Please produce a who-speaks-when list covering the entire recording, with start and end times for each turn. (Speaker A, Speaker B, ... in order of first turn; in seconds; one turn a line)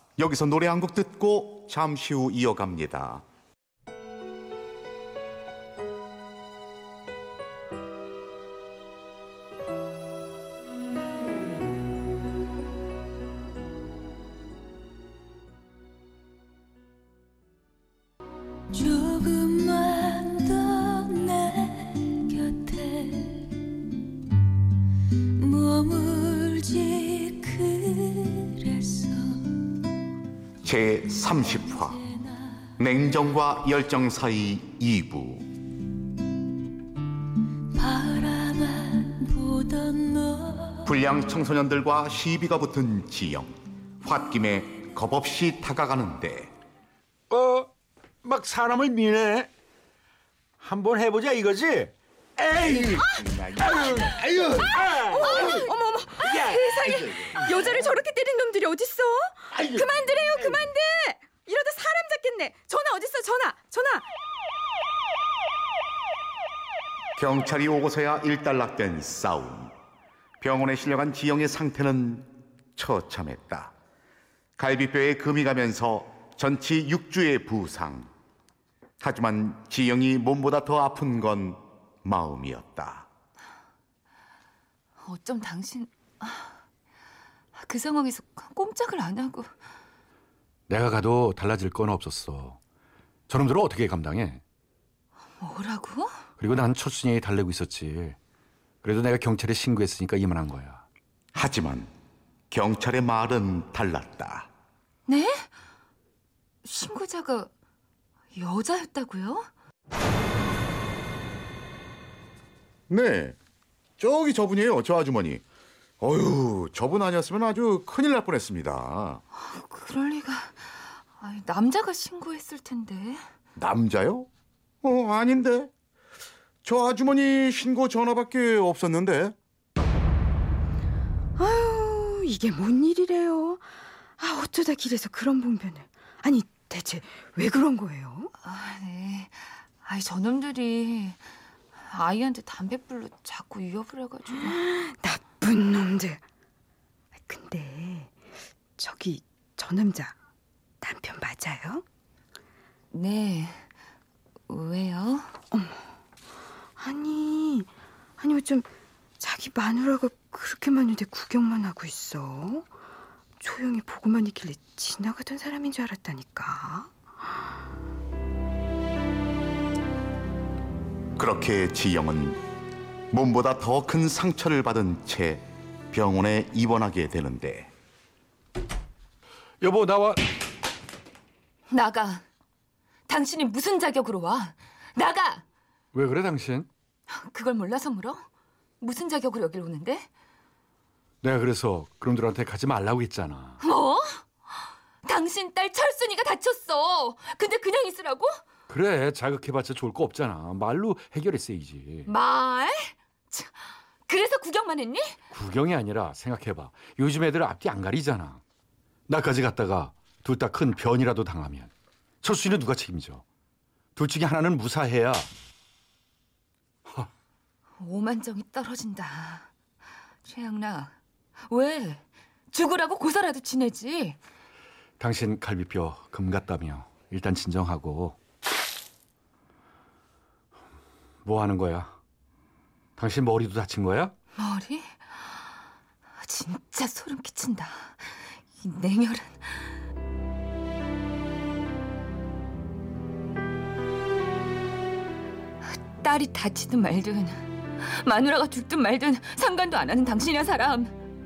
Speaker A: 0.2-3.2
Speaker B: 18.7-23.7
Speaker B: 25.3-29.6
Speaker A: 30.6-32.0
Speaker A: 32.8-35.5
Speaker B: 37.7-40.8
Speaker A: 40.8-46.5
Speaker C: 47.3-47.7
Speaker C: 48.2-49.5
Speaker C: 50.6-57.7
Speaker A: 52.9-54.2
Speaker D: 55.0-64.0
Speaker E: 55.2-55.6
Speaker C: 59.5-60.7
Speaker A: 67.2-69.7
Speaker A: 70.4-73.7
Speaker A: 74.6-78.1
Speaker A: 79.0-83.1
Speaker E: 85.0-86.5
Speaker E: 87.5-89.5
Speaker F: 90.7-92.6
Speaker F: 93.3-94.4
Speaker E: 95.4-96.2
Speaker F: 96.4-98.2
Speaker F: 98.8-100.8
Speaker A: 101.3-101.9
Speaker A: 102.5-104.5
Speaker E: 105.1-105.5
Speaker E: 106.6-107.5
Speaker E: 108.3-109.5
Speaker A: 112.9-113.3
Speaker A: 114.0-115.4
Speaker A: 116.0-119.2
Speaker E: 119.3-123.2
Speaker A: 123.5-124.3
Speaker A: 124.8-125.7
Speaker A: 126.6-129.3
Speaker D: 131.4-133.7
Speaker D: 134.2-138.3
Speaker E: 138.4-141.2
Speaker E: 141.8-144.6
Speaker D: 144.4-146.2
Speaker D: 147.2-148.1
Speaker D: 148.8-150.1
Speaker D: 150.8-151.8
Speaker E: 152.9-153.7
Speaker E: 154.5-155.3
Speaker D: 156.8-158.7
Speaker D: 159.2-162.7
Speaker D: 163.4-166.9
Speaker A: 171.2-172.4
Speaker A: 173.1-177.7
Speaker F: 179.6-180.2
Speaker E: 181.7-182.2
Speaker E: 183.1-185.4
Speaker F: 185.9-186.7
Speaker E: 187.1-188.2
Speaker E: 188.8-190.1
Speaker F: 191.2-193.6
Speaker E: 193.6-198.4
Speaker F: 198.7-202.1
Speaker E: 202.1-205.2
Speaker F: 205.3-208.4
Speaker F: 209.1-211.7
Speaker F: 212.2-213.2
Speaker F: 213.9-215.3
Speaker E: 217.8-219.5
Speaker E: 220.2-220.9
Speaker E: 221.4-224.2
Speaker F: 225.0-228.2
Speaker F: 231.2-231.9
Speaker F: 233.0-234.1
Speaker E: 234.3-235.4
Speaker E: 236.2-239.8
Speaker E: 245.7-250.9